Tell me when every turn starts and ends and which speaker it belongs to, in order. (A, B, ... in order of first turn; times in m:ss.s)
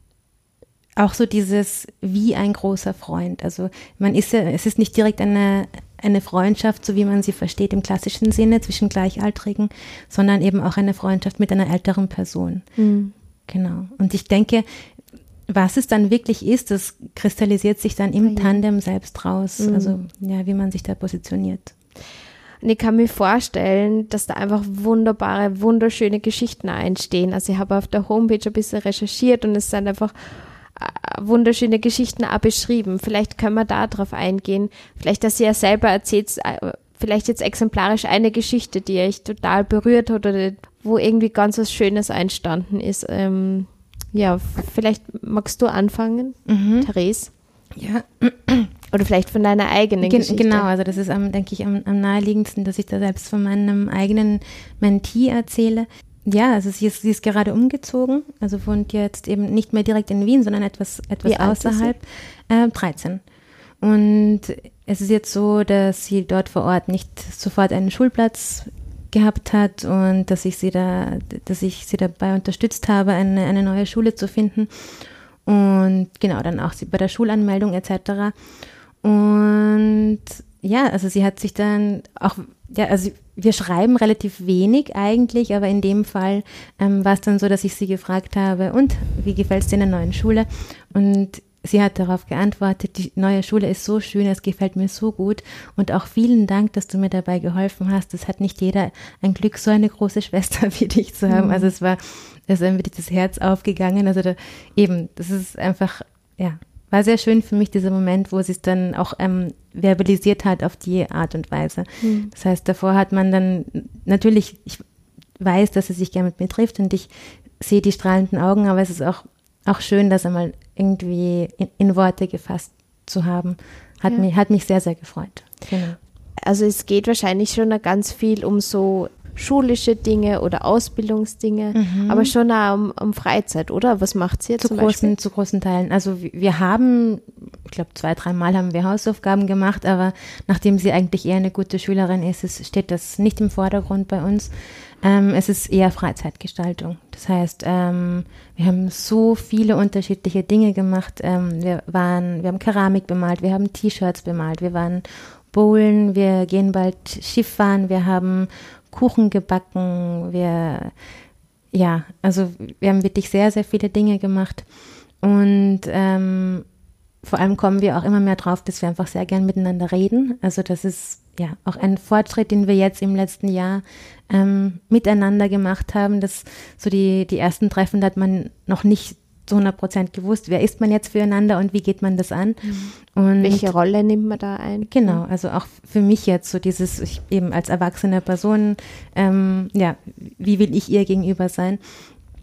0:01.0-0:12.6 A
0:12.8-0:13.1 B
0:13.5-0:14.6 A
0:15.5-0:21.7 A
0:18.2-0:18.6 B
0:19.6-0:20.0 B
0:22.6-0:47.3 B
0:46.5-0:46.9 A
0:47.8-0:48.7 A
0:48.9-0:50.7 B
0:50.0-1:03.2 A
1:01.2-1:01.9 B
1:03.8-1:18.3 A
1:19.0-1:54.8 A
1:41.3-1:41.7 B
1:52.0-1:52.3 B
1:55.4-2:06.0 A
2:06.4-2:15.1 B
2:11.7-2:12.3 A
2:14.6-2:40.9 A
2:41.7-2:44.7 A
2:45.2-2:46.6 A
2:47.2-3:03.7 A
3:02.6-3:05.2 B
3:04.9-3:11.8 A